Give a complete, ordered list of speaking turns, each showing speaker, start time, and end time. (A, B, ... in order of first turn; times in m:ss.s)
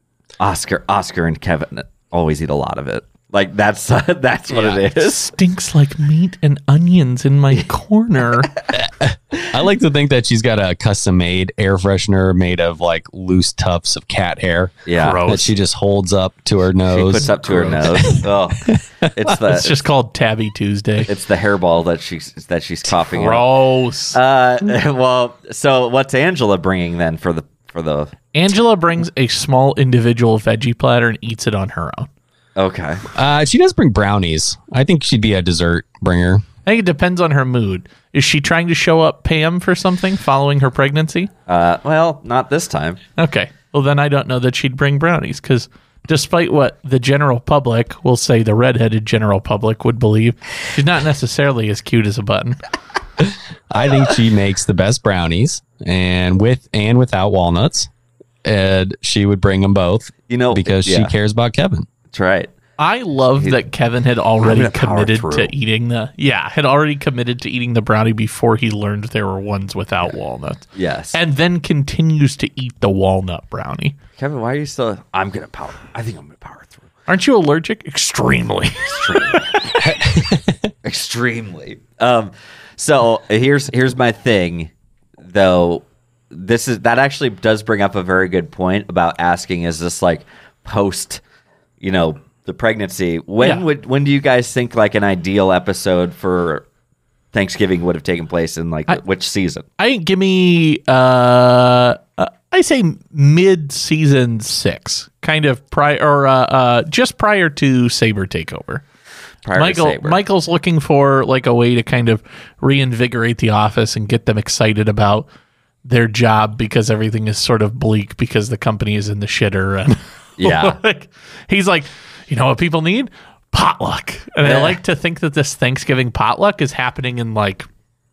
0:00.4-0:05.2 A
0:04.5-0:08.5 B
0:08.7-0:18.8 C
0:14.8-0:15.2 A
0:14.9-0:15.5 B
0:16.9-0:19.8 A
0:19.4-0:21.1 B
0:21.0-0:23.5 A
0:22.9-0:24.2 B
0:24.1-0:28.1 A
0:28.3-0:32.1 B
0:32.6-0:33.0 A
0:33.1-0:36.4 C
0:36.6-0:41.3 B
0:41.5-0:43.0 A
0:43.2-0:52.6 B
0:53.2-0:57.9 C
0:58.4-1:01.9 C
1:00.3-1:01.1 A
1:02.1-1:02.5 A
1:02.8-1:14.0 B
1:04.4-1:05.5 A
1:10.7-1:11.2 A
1:14.2-1:16.9 A
1:17.1-1:19.9 B
1:18.9-1:19.6 A
1:19.8-1:20.7 C
1:20.8-1:24.7 A
1:25.2-1:31.2 A
1:31.8-1:36.6 A
1:37.3-1:39.6 A
1:39.8-1:48.8 B
1:49.4-1:50.2 A
1:49.5-1:55.3 B
1:55.8-2:07.7 B
2:00.4-2:00.8 A
2:04.4-2:04.8 A